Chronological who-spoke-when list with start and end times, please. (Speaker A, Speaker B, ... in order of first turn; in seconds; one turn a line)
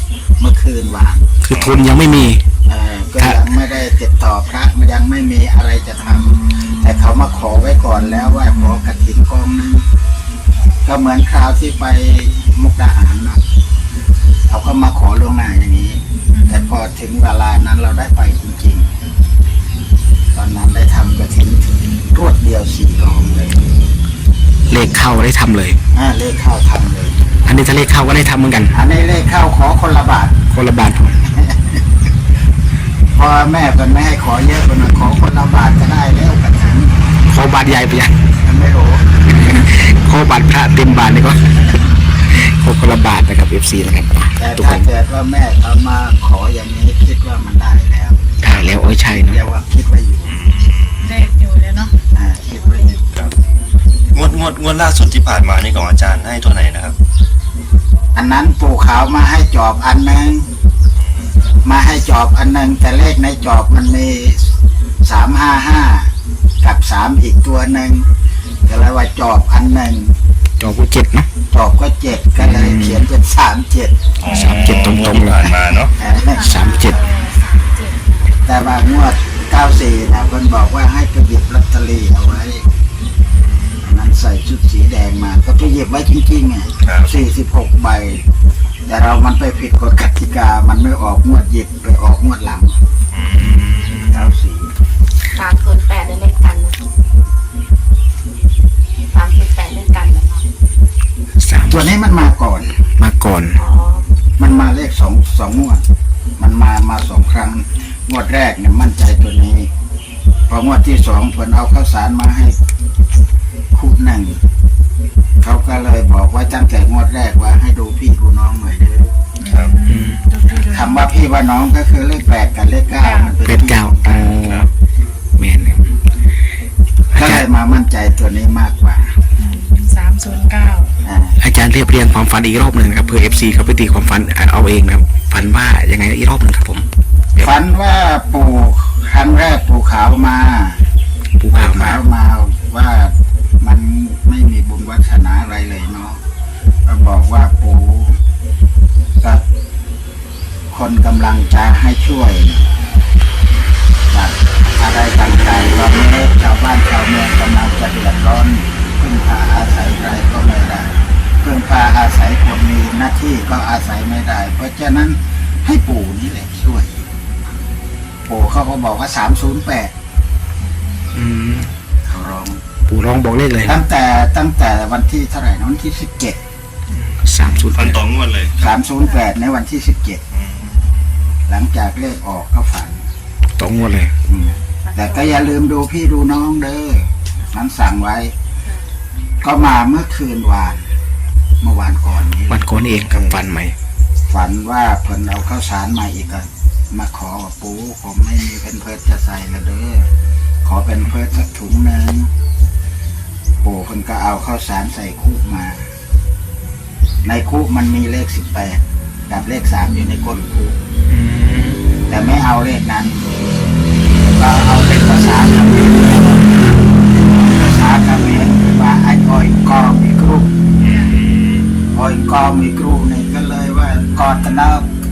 Speaker A: 0.4-1.3
Speaker B: 1.4-2.4
Speaker C: 1.5-1.8
Speaker A: 2.7-9.8
Speaker B: 3.2-3.5
Speaker A: 10.8-13.4
Speaker A: 14.5-19.0
Speaker D: 16.3-16.7
Speaker A: 20.3-23.6
Speaker B: 24.7-25.8
Speaker A: 25.9-27.2
Speaker B: 27.4-28.7
Speaker A: 28.7-30.5
Speaker B: 30.5-31.2
Speaker A: 31.2-31.8
Speaker A: 33.1-36.9
Speaker B: 37.3-38.2
Speaker A: 38.4-39.1
Speaker B: 39.3-41.7
Speaker B: 42.3-44.9
Speaker A: 44.4-48.3
Speaker B: 48.4-49.4
Speaker A: 49.1-50.3
Speaker C: 50.3-51.3
Speaker D: 51.0-52.0
Speaker A: 52.1-53.0
Speaker C: 54.1-57.0
Speaker A: 58.1-60.5
Speaker C: 61.0-61.4
Speaker A: 61.6-64.5
Speaker A: 65.0-66.1
Speaker A: 66.6-68.0
Speaker A: 68.7-70.1
Speaker B: 70.6-71.3
Speaker A: 71.5-74.0
Speaker B: 72.4-73.1
Speaker C: 74.2-75.9
Speaker B: 74.2-75.6
Speaker A: 76.0-76.5
Speaker D: 76.0-78.4
Speaker B: 76.4-77.0
Speaker A: 78.5-82.6
Speaker A: 83.8-88.3
Speaker C: 86.8-87.2
Speaker A: 88.9-92.8
Speaker C: 93.1-94.2
Speaker A: 94.1-94.7
Speaker E: 95.3-96.8
Speaker E: 99.1-100.5
Speaker B: 101.4-101.9
Speaker A: 101.7-102.8
Speaker B: 103.0-103.6
Speaker E: 103.6-104.1
Speaker A: 104.4-105.8
Speaker A: 106.4-109.7
Speaker A: 110.5-112.6
Speaker A: 113.7-114.4
Speaker A: 115.4-119.1
Speaker D: 119.4-121.1
Speaker C: 119.4-119.8
Speaker B: 119.9-120.2
Speaker A: 120.5-124.2
Speaker D: 123.0-123.3
Speaker B: 123.5-124.7
Speaker C: 124.4-124.7
Speaker B: 125.4-125.9
Speaker B: 127.1-127.4
Speaker A: 127.1-129.2
Speaker D: 129.4-131.0
Speaker A: 131.0-131.4
Speaker B: 131.4-137.6
Speaker A: 137.4-140.8
Speaker B: 141.4-142.0
Speaker A: 141.5-146.2
Speaker A: 146.9-148.2
Speaker A: 150.7-152.9
Speaker A: 154.1-167.0
Speaker A: 168.3-169.9
Speaker B: 171.1-171.7
Speaker A: 172.1-172.6
Speaker B: 172.9-173.8
Speaker A: 173.6-176.4
Speaker B: 177.2-178.0
Speaker C: 177.5-178.7
Speaker A: 178.6-180.2
Speaker C: 180.3-181.3
Speaker A: 181.5-183.0
Speaker B: 183.6-184.1
Speaker A: 184.3-188.3
Speaker E: 184.8-185.3
Speaker E: 188.6-188.9
Speaker A: 189.4-190.9
Speaker A: 191.6-193.4
Speaker B: 192.5-193.8
Speaker A: 194.3-200.1
Speaker A: 200.6-202.3
Speaker A: 203.6-205.8
Speaker A: 207.2-210.8
Speaker B: 211.1-211.8
Speaker A: 212.1-213.6
Speaker A: 214.2-216.8
Speaker A: 217.5-220.5
Speaker C: 220.8-221.7
Speaker D: 220.9-221.2
Speaker A: 221.9-224.9